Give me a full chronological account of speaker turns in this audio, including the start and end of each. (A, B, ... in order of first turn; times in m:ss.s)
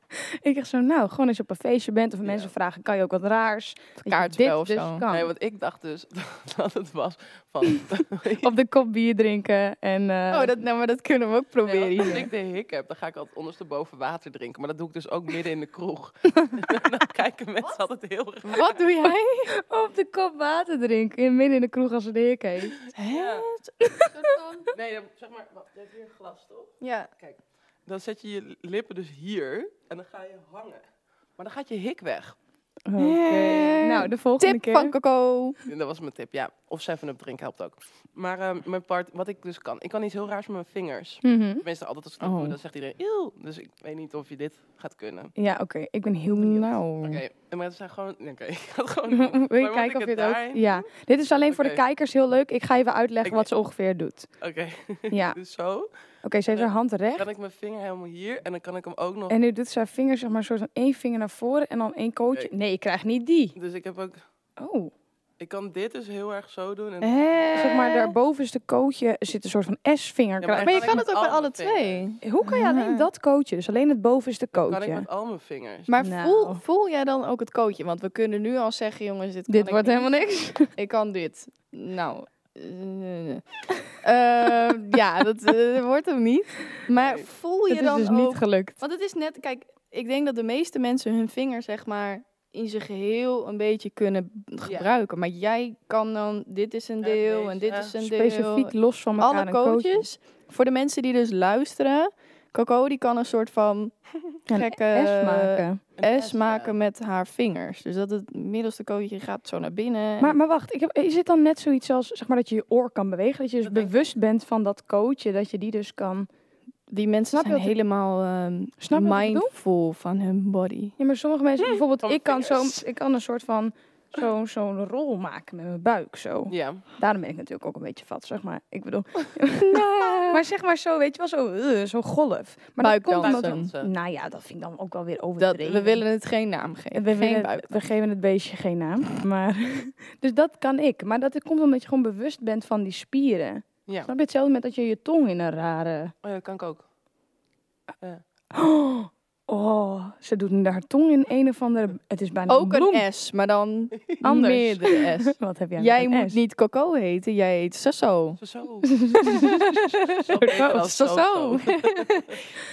0:00.1-0:05.3 A
0:02.2-0:02.5 B
0:04.0-0:05.0 C
0:05.1-0:08.5 B
0:08.4-0:10.6 A
0:10.3-0:12.3 C
0:11.7-0:18.8 B
0:18.4-0:19.6 C
0:19.5-0:22.8 A
0:22.9-0:24.7 C
0:23.1-0:23.5 B
0:23.8-0:24.1 A
0:24.7-0:30.8 B
0:26.8-0:27.1 C
0:31.4-0:32.4 B
0:32.8-0:34.9 A
0:33.0-0:35.6 C
0:35.6-0:45.3 B
0:41.2-0:41.6 A
0:42.2-0:42.6 C
0:45.3-0:46.8 A
0:46.3-0:47.2 C
0:47.0-0:50.8 B
0:49.1-0:54.3 A
0:51.5-0:51.8 B
0:53.2-0:53.5 B
0:54.4-0:55.9 B
0:55.1-0:55.4 A
0:56.2-0:57.3 A
0:56.5-0:59.4 B
0:59.3-1:03.6 A
1:03.6-1:04.2 B
1:04.6-1:04.9 A
1:05.4-1:07.8 B
1:07.0-1:11.0 A
1:07.3-1:08.1 C
1:10.4-1:12.1 B
1:10.6-1:13.0 C
1:12.2-1:15.1 A
1:14.5-1:15.9 B
1:15.9-1:20.1 C
1:16.0-1:16.6 A
1:19.5-1:20.7 A
1:20.7-1:44.0 C
1:27.0-1:27.2 B
1:27.7-1:28.8 A
1:37.0-1:37.9 B
1:38.0-1:40.0 A
1:44.5-1:50.3 C
1:44.5-1:45.8 A
1:46.0-1:46.7 B
1:50.2-1:56.3 A
1:53.6-1:53.9 B
1:56.9-2:01.0 C
1:57.3-1:57.7 A
1:58.8-1:59.5 A
2:01.0-2:16.0 A
2:01.6-2:02.8 B
2:06.5-2:06.8 B
2:09.6-2:10.4 C
2:12.8-2:13.7 C
2:13.1-2:13.9 B
2:15.4-2:17.8 C
2:16.9-2:26.1 A
2:26.2-2:26.8 B
2:28.5-2:33.0 A
2:32.5-2:38.4 C
2:34.2-2:36.4 A
2:38.4-2:38.9 B
2:38.9-2:40.8 A
2:39.2-2:42.4 C
2:40.3-2:42.4 B